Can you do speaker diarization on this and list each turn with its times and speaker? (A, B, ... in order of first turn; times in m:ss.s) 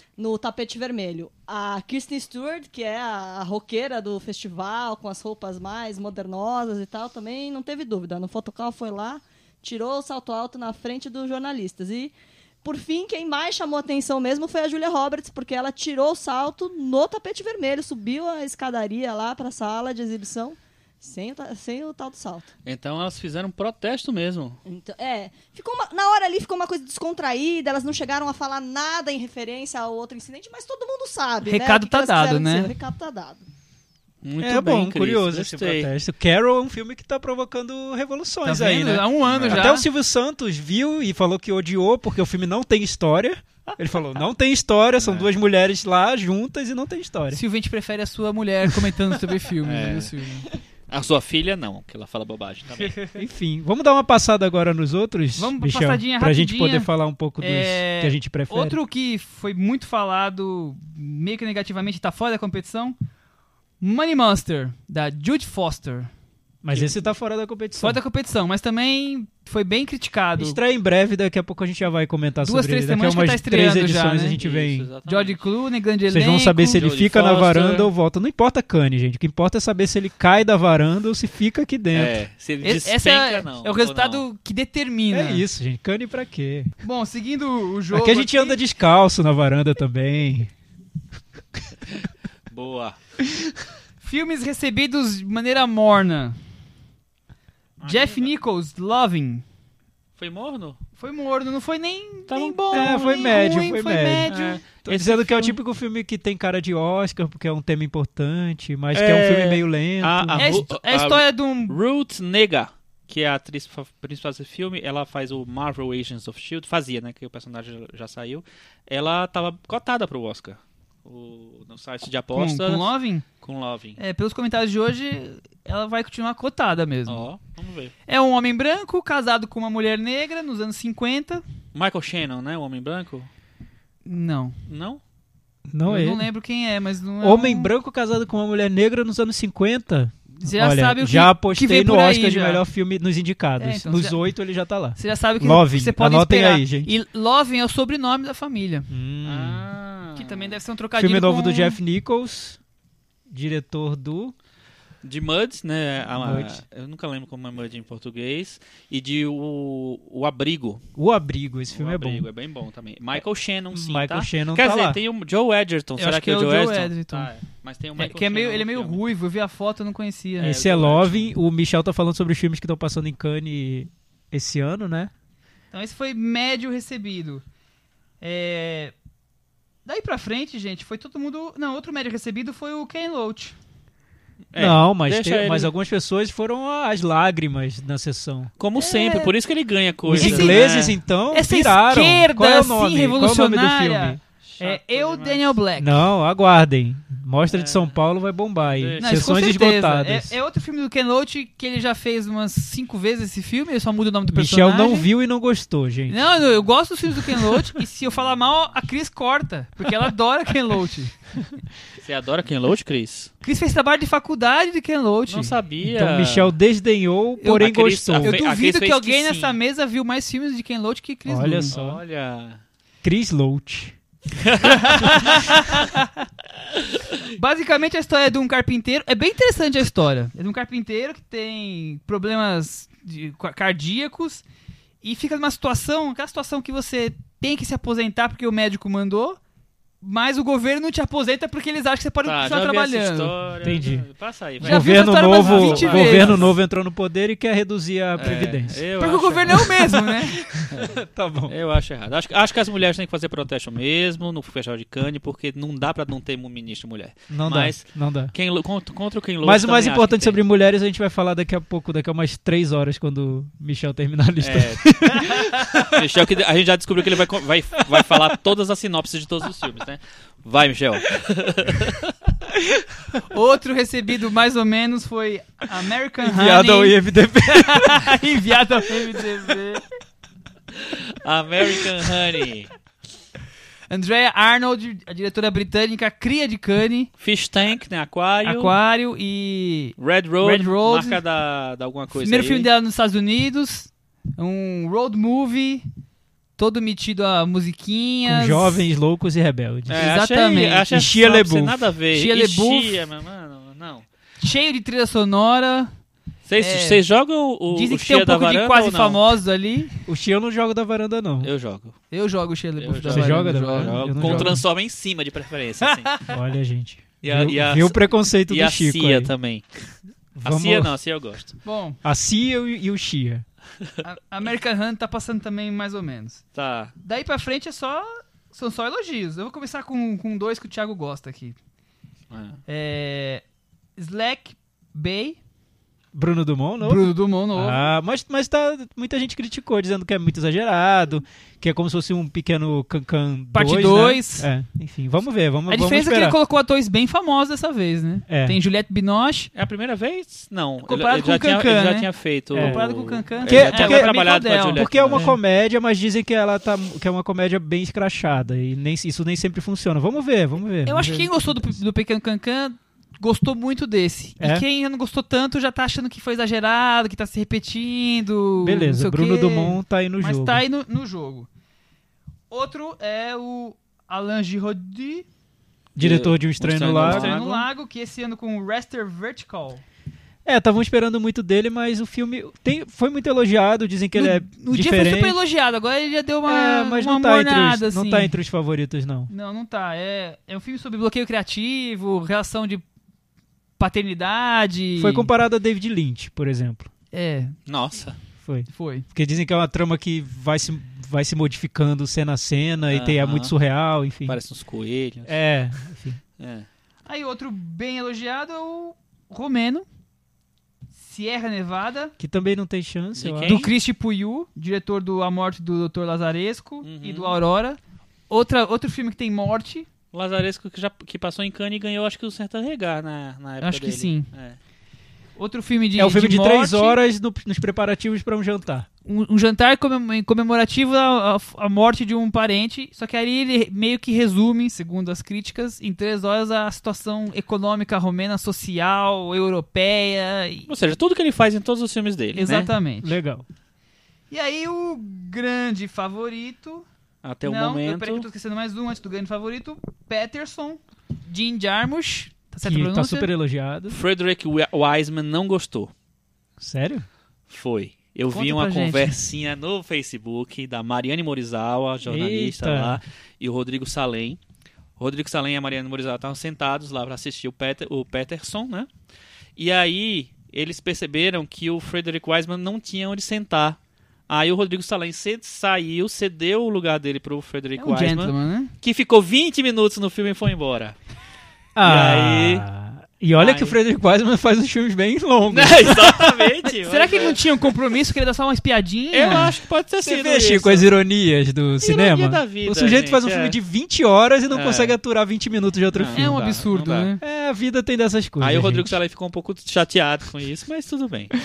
0:00.2-0:22.5 A
0:22.6-0:24.6 B
0:24.6-0:33.4 A
0:31.4-0:32.7 C
0:34.2-0:35.9 B
0:34.4-0:47.4 D
0:38.4-0:39.8 C
0:39.3-0:39.7 B
0:45.0-0:45.3 B
0:47.3-0:50.5 C
0:49.6-0:50.1 B
0:50.9-0:53.0 B
0:52.8-0:53.2 C
0:53.2-0:58.8 D
0:55.4-0:56.9 C
0:57.4-1:03.0 C
1:03.8-1:06.1 C
1:06.6-1:08.0 D
1:06.7-1:07.0 C
1:07.8-1:10.6 C
1:10.4-1:14.9 D
1:12.4-1:14.4 C
1:14.4-1:15.4 B
1:15.1-1:16.8 C
1:16.1-1:22.2 D
1:16.8-1:17.9 B
1:21.9-1:24.2 B
1:22.6-1:25.4 C
1:25.1-1:26.7 D
1:26.8-1:28.6 C
1:27.9-1:30.5 D
1:32.0-1:33.0 B
1:34.0-1:36.4 C
1:37.8-1:38.3 B
1:37.9-1:39.4 C
1:40.2-1:40.8 B
1:41.0-1:45.4 C
1:42.3-1:43.4 B
1:42.7-1:44.3 D
1:44.3-1:45.3 B
1:44.8-1:50.6 D
1:48.9-2:04.0 B
1:50.4-1:51.8 C
2:02.3-2:03.2 C
2:04.0-2:07.2 C
2:07.1-2:07.9 B
2:08.1-2:11.4 C
2:11.7-2:13.3 B
2:14.1-2:14.6 C
2:14.7-2:15.0 B
2:15.7-2:16.3 D
2:15.9-2:17.7 C
2:17.2-2:26.9 D
2:20.4-2:22.6 C
2:23.6-2:24.2 C
2:25.0-2:28.9 C
2:28.9-2:29.6 D
2:29.2-2:30.6 B
2:30.2-2:31.8 C
2:31.0-2:32.6 D
2:33.3-2:34.3 D
2:35.0-2:40.8 B
2:36.2-2:36.6 D
2:41.0-2:42.2 D
2:41.7-2:49.0 B
2:43.7-2:45.0 D
2:46.0-2:47.3 C
2:48.0-2:50.6 C
2:50.4-2:51.3 B
2:50.4-2:55.1 D
2:55.7-2:57.4 C
2:58.2-2:58.9 C
2:59.9-3:03.6 C
3:04.5-3:05.7 B
3:04.6-3:08.5 D
3:08.6-3:11.0 B
3:08.8-3:09.3 C
3:10.1-3:14.2 D
3:10.1-3:10.7 C
3:11.3-3:16.0 C
3:14.4-3:15.6 B
3:15.8-3:20.3 D
3:17.5-3:18.0 B
3:18.6-3:19.3 B
3:19.0-3:25.1 C
3:24.3-3:26.2 D
3:26.1-3:31.1 C
3:32.0-3:33.3 B
3:33.4-3:35.6 C
3:35.3-3:36.6 B
3:35.8-3:38.4 D
3:37.4-3:37.7 C
3:37.6-3:39.6 B
3:38.2-3:41.7 C
3:41.3-3:42.0 D
3:41.7-3:42.6 B
3:43.0-3:44.0 D
3:44.4-3:45.4 B
3:44.7-3:46.0 C
3:45.0-3:45.3 D
3:47.4-3:54.4 C
3:55.0-3:59.4 C
4:00.0-4:03.3 C
4:02.2-4:06.6 B
4:03.6-4:04.0 D
4:04.6-4:08.8 D
4:04.6-4:06.5 C
4:08.2-4:09.8 B
4:09.0-4:10.4 C
4:10.4-4:11.5 D
4:10.7-4:11.0 B
4:11.5-4:20.4 B
4:17.3-4:18.3 D
4:19.4-4:26.0 D
4:24.4-4:25.3 B
4:25.8-4:32.1 B
4:27.9-4:28.2 D
4:32.6-4:32.8 D
4:33.3-4:37.0 C
4:36.2-4:38.2 D
4:37.5-4:39.8 C
4:40.8-4:42.7 B
4:43.9-4:47.1 C
4:47.2-4:48.7 B
4:48.4-4:51.2 C
4:50.0-4:52.7 B
4:52.1-4:55.9 C
4:56.6-4:58.8 C
4:58.3-5:00.0 D
4:59.9-5:04.1 B
4:59.9-5:00.9 C
5:00.9-5:01.9 D
5:02.1-5:03.0 C
5:04.4-5:05.9 C
5:06.5-5:09.3 B
5:06.6-5:07.0 C
5:07.7-5:10.0 C
5:10.1-5:11.5 D
5:11.4-5:12.0 B
5:12.1-5:14.6 C
5:12.8-5:16.2 B
5:13.1-5:14.6 D
5:15.8-5:16.3 C
5:16.3-5:19.3 D
5:17.2-5:19.9 B
5:20.4-5:20.9 D
5:20.4-5:21.6 B
5:21.6-5:22.0 C
5:22.0-5:23.4 D
5:24.0-5:26.4 C
5:26.6-5:26.9 B
5:27.0-5:31.6 C
5:32.3-5:32.6 B
5:32.7-5:33.4 C
5:34.0-5:35.4 C
5:36.1-5:46.4 D
5:36.8-5:37.9 C
5:43.5-5:44.5 C
5:45.7-5:49.5 C
5:48.3-5:48.6 D
5:49.5-5:55.3 B
5:50.8-5:55.4 C
5:52.5-5:52.8 D
5:53.4-6:01.3 D
6:00.8-6:11.5 C
6:08.6-6:10.6 D
6:12.5-6:15.3 C
6:16.0-6:17.7 D
6:16.0-6:17.4 B
6:17.0-6:19.8 C
6:20.4-6:25.4 D
6:24.2-6:28.4 C
6:26.5-6:29.3 D
6:29.3-6:32.8 C
6:33.8-6:35.3 C
6:35.0-6:36.9 D
6:37.1-6:37.6 C
6:37.7-6:38.2 B
6:38.4-6:44.4 D
6:38.7-6:39.1 C
6:42.9-6:43.5 B
6:44.3-6:45.4 B
6:45.2-6:46.2 D
6:46.4-6:46.7 B
6:47.1-6:49.9 C
6:51.0-6:52.1 C
6:52.2-6:53.6 D
6:53.2-6:53.7 B
6:53.5-6:57.8 C
6:56.8-6:57.4 B
6:58.3-6:59.9 C
7:00.1-7:04.6 B
7:03.6-7:04.3 C
7:05.4-7:07.0 C
7:06.0-7:08.9 D
7:09.1-7:20.7 C
7:20.7-7:22.7 B
7:22.4-7:23.2 C
7:23.0-7:23.4 D
7:24.3-7:26.8 C
7:27.2-7:28.3 B
7:27.4-7:33.3 C
7:32.6-7:34.0 D
7:33.9-7:35.9 B
7:36.6-7:37.0 D
7:37.5-7:44.4 B
7:38.3-7:39.2 C
7:42.0-7:43.0 D
7:45.0-7:48.9 B
7:49.6-7:53.8 B
7:54.3-8:01.0 B
7:57.8-7:58.7 C
8:01.8-8:06.5 D
8:01.8-8:02.7 B
8:03.4-8:03.8 B
8:05.5-8:07.4 B
8:06.8-8:09.5 C
8:09.1-8:10.9 B
8:10.0-8:16.4 D
8:11.8-8:13.6 B
8:14.5-8:15.0 B
8:15.9-8:17.1 B
8:16.2-8:17.2 C
8:17.2-8:18.9 D
8:18.4-8:21.3 B